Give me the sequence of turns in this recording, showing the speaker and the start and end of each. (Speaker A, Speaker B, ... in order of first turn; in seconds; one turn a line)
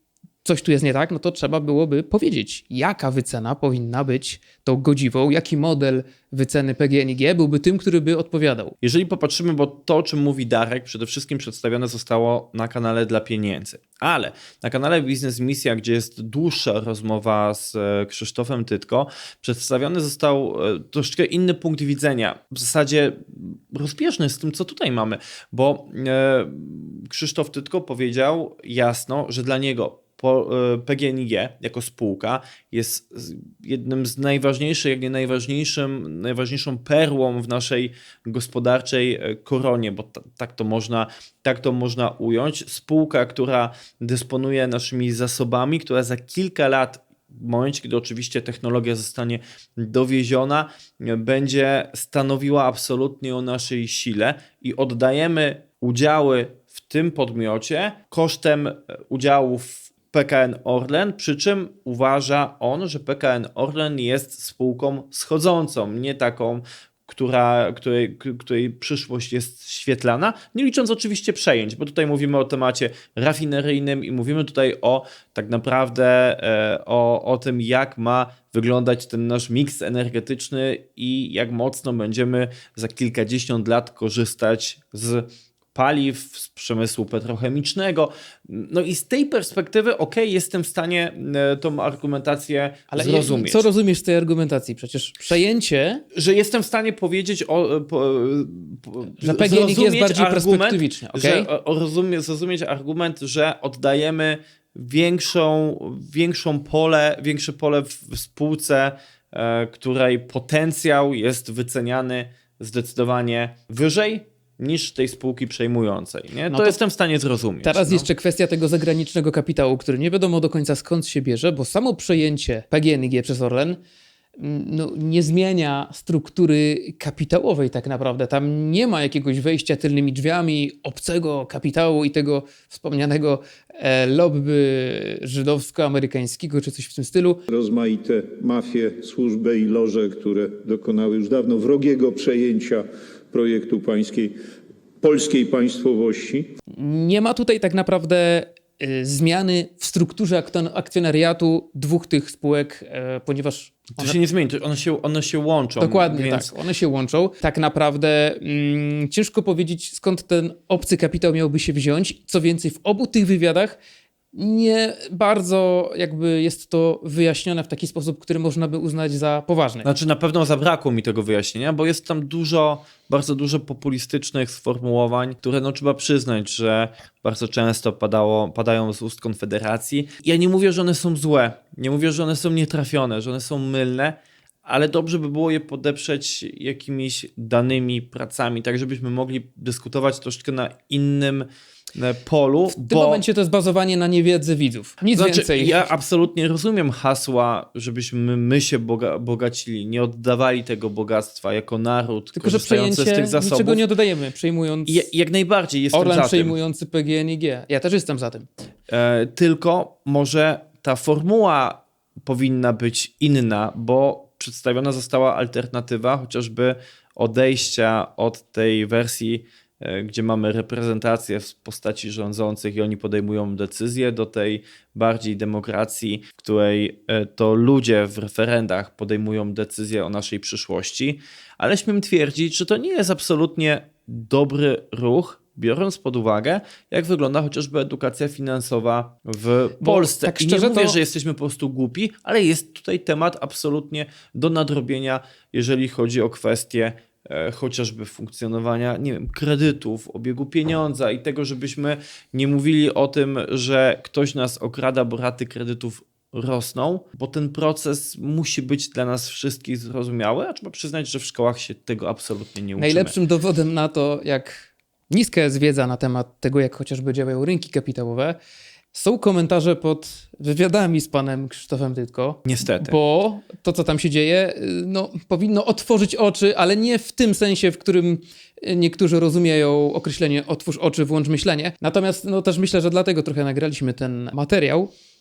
Speaker A: 0.5-8.7
Speaker B: 8.8-93.7
Speaker A: 92.9-96.0
Speaker B: 96.1-118.1
Speaker A: 99.2-101.5
Speaker A: 116.5-116.8
Speaker A: 117.6-123.8
Speaker A: 124.4-137.4
Speaker C: 137.5-144.4
Speaker C: 145.0-146.5
Speaker A: 146.8-154.2
Speaker B: 154.0-156.5
Speaker A: 155.8-163.8
Speaker A: 164.3-169.9
Speaker B: 169.8-193.2
Speaker A: 192.7-195.9
Speaker B: 195.2-203.8
Speaker A: 202.4-205.1
Speaker B: 204.9-206.6
Speaker A: 205.9-208.5
Speaker B: 208.9-263.1
Speaker A: 239.8-241.0
Speaker A: 262.8-268.4
Speaker A: 268.9-284.9
Speaker B: 272.5-273.0